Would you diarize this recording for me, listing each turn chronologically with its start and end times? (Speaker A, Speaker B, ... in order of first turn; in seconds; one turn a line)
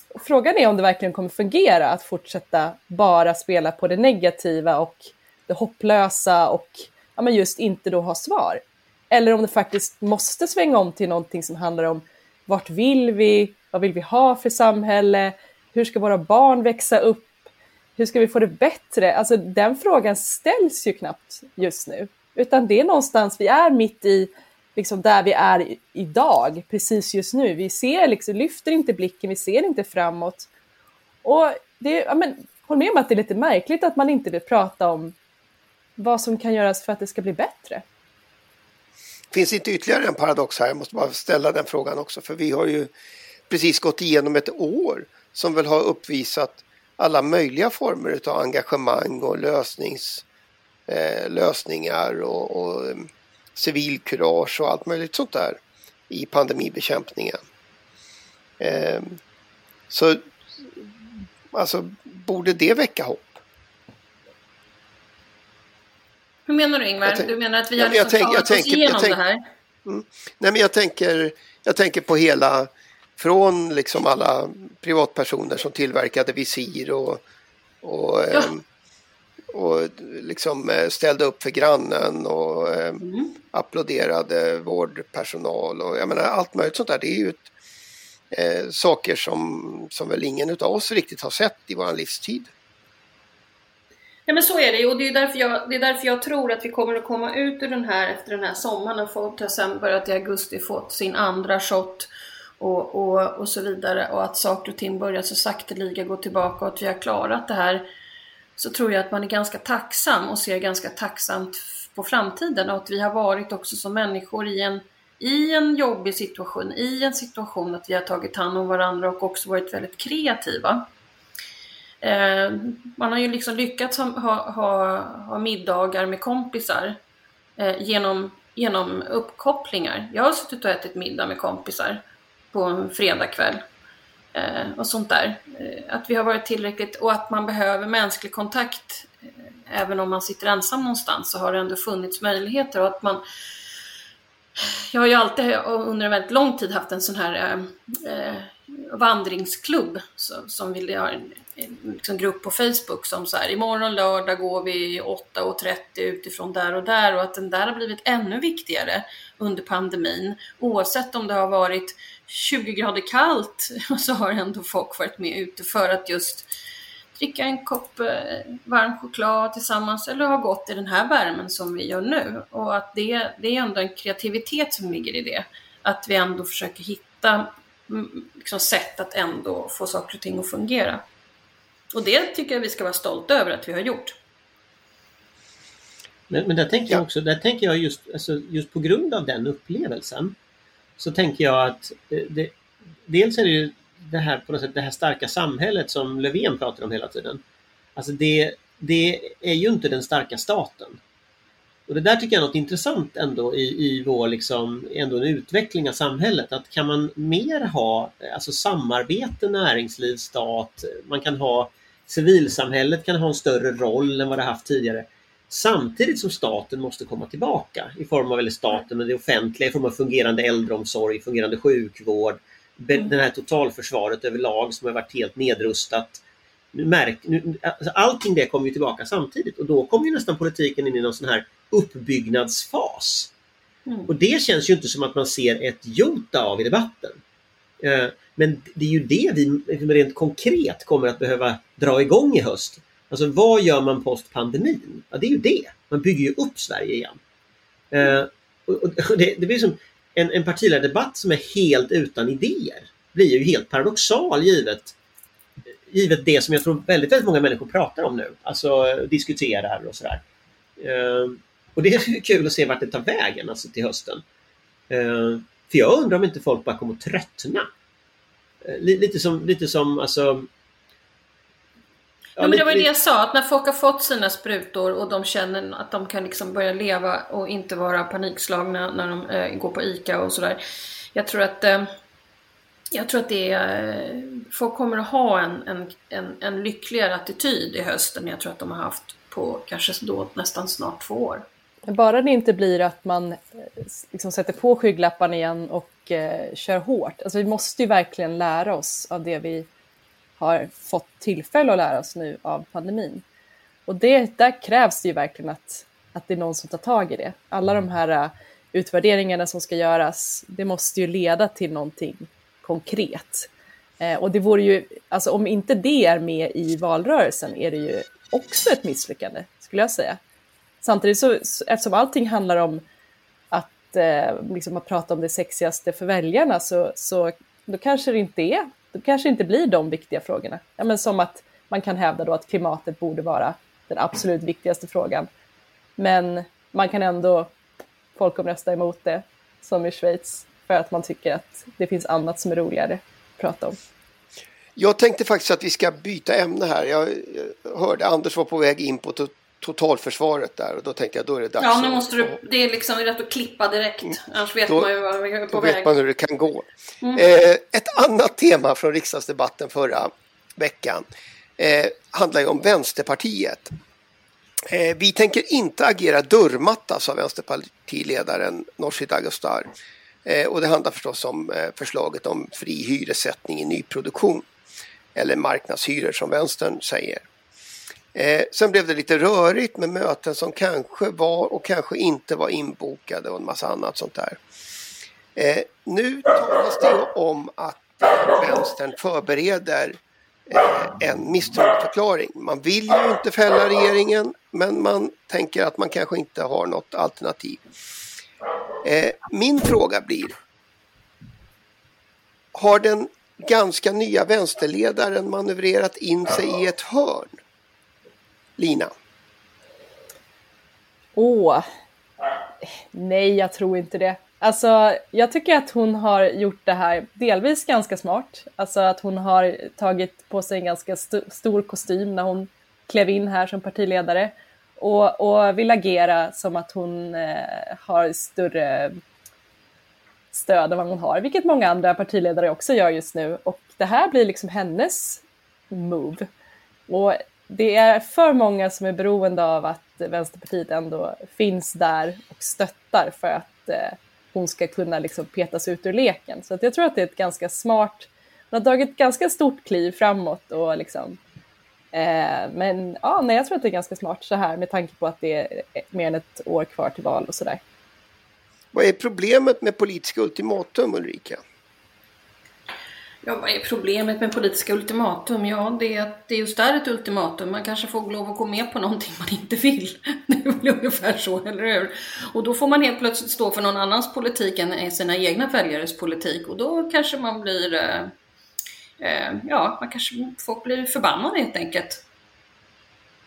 Speaker A: 0.2-17.3
Speaker A: 18.0-30.5
Speaker A: 31.2-35.1
Speaker A: 36.0-37.8
Speaker B: 39.3-42.9
Speaker B: 43.5-50.2
Speaker B: 50.9-57.4
Speaker B: 58.6-59.2
Speaker B: 59.9-60.2
Speaker B: 61.5-63.4
Speaker C: 66.5-69.4
Speaker B: 67.0-69.2
Speaker B: 69.9-77.2
Speaker B: 77.8-78.6
Speaker B: 79.5-87.5
Speaker C: 83.0-83.3
Speaker B: 88.3-92.5
Speaker C: 94.3-107.8
Speaker C: 108.6-120.8
Speaker C: 122.0-127.0
Speaker C: 127.6-132.0
Speaker C: 132.5-133.6
Speaker C: 134.3-139.1
Speaker C: 139.7-143.2
Speaker C: 144.6-166.5
Speaker C: 167.2-181.0
Speaker C: 181.9-184.2
Speaker D: 186.3-190.3
Speaker D: 191.0-192.5
Speaker D: 193.1-197.4
Speaker D: 198.0-201.0
Speaker D: 201.9-226.2
Speaker D: 226.7-233.3
Speaker D: 234.1-237.2
Speaker D: 237.8-247.2
Speaker D: 247.9-254.9
Speaker D: 255.9-260.2
Speaker D: 260.8-264.2
Speaker D: 264.9-267.7
Speaker D: 268.6-270.5
Speaker D: 272.4-272.9
Speaker C: 272.4-280.6
Speaker C: 281.1-281.9
Speaker C: 282.9-291.4
Speaker A: 291.9-299.7
Speaker A: 300.4-303.2
Speaker A: 303.9-313.5
Speaker A: 314.0-320.2
Speaker A: 320.8-322.8
Speaker A: 323.5-335.3
Speaker A: 336.0-337.5
Speaker A: 338.1-343.8
Speaker B: 344.8-352.4
Speaker C: 351.6-355.9
Speaker B: 355.5-361.1
Speaker C: 357.0-357.3
Speaker B: 361.6-363.7
Speaker B: 364.7-369.7
Speaker B: 370.2-374.5
Speaker B: 375.1-377.3
Speaker B: 378.1-384.4
Speaker B: 385.4-397.6
Speaker B: 398.8-400.3
Speaker B: 402.6-407.3
Speaker B: 408.6-408.9
Speaker A: 411.2-411.6
Speaker A: 412.6-429.0
Speaker A: 430.3-436.3
Speaker A: 436.9-451.2
Speaker A: 451.9-457.6
Speaker B: 458.7-461.4
Speaker C: 463.2-478.1
Speaker C: 479.0-482.0